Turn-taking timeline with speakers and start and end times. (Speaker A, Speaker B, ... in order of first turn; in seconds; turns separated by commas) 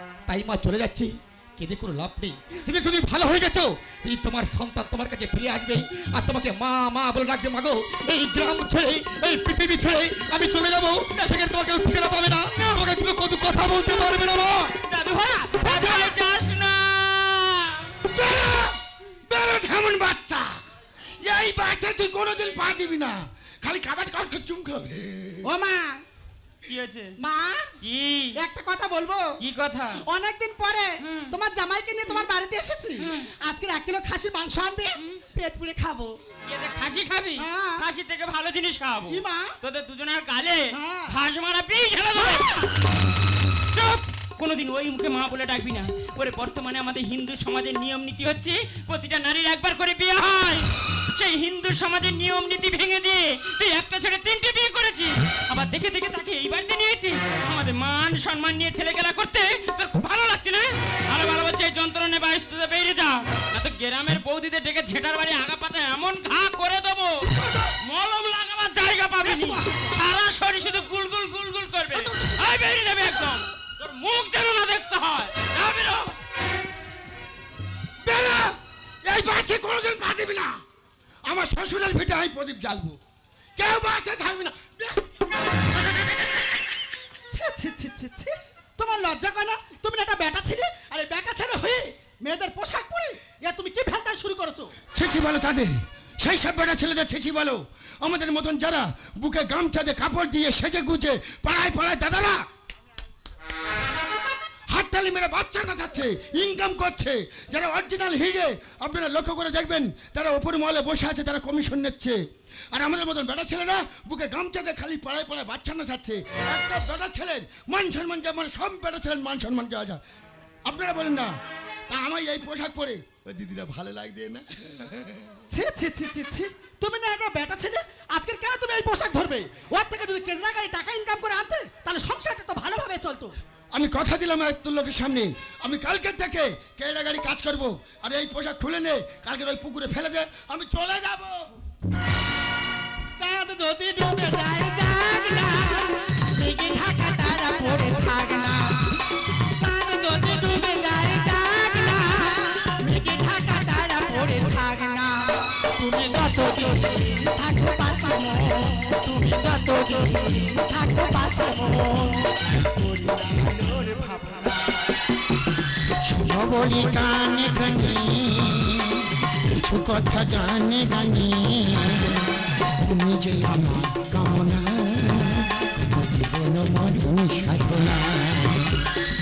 Speaker A: 0.3-14.7, Speaker B: 12.6-12.9, Speaker B: 14.8-17.9, Speaker A: 15.7-16.1, Speaker C: 18.1-20.6, Speaker C: 21.2-25.5, Speaker D: 25.4-26.0, Speaker B: 26.7-27.1, Speaker D: 27.2-27.7, Speaker B: 27.8-28.4, Speaker D: 28.4-29.4, Speaker B: 29.4-30.1, Speaker D: 30.0-36.2, Speaker B: 31.0-31.3, Speaker B: 33.0-33.3, Speaker B: 36.5-42.7, Speaker D: 37.4-37.9, Speaker D: 39.1-39.6, Speaker D: 40.7-41.1, Speaker B: 43.7-76.2, Speaker D: 67.4-67.7, Speaker D: 69.2-69.9, Speaker C: 78.0-80.5, Speaker C: 81.3-83.0, Speaker C: 83.6-85.0, Speaker D: 87.3-94.7, Speaker C: 94.9-102.4, Speaker C: 104.7-120.0, Speaker C: 120.7-121.3, Speaker C: 121.9-125.3, Speaker D: 125.5-133.4, Speaker C: 133.7-141.5, Speaker D: 143.2-148.9, Speaker D: 149.5-162.3, Speaker D: 163.2-164.5, Speaker C: 165.9-178.9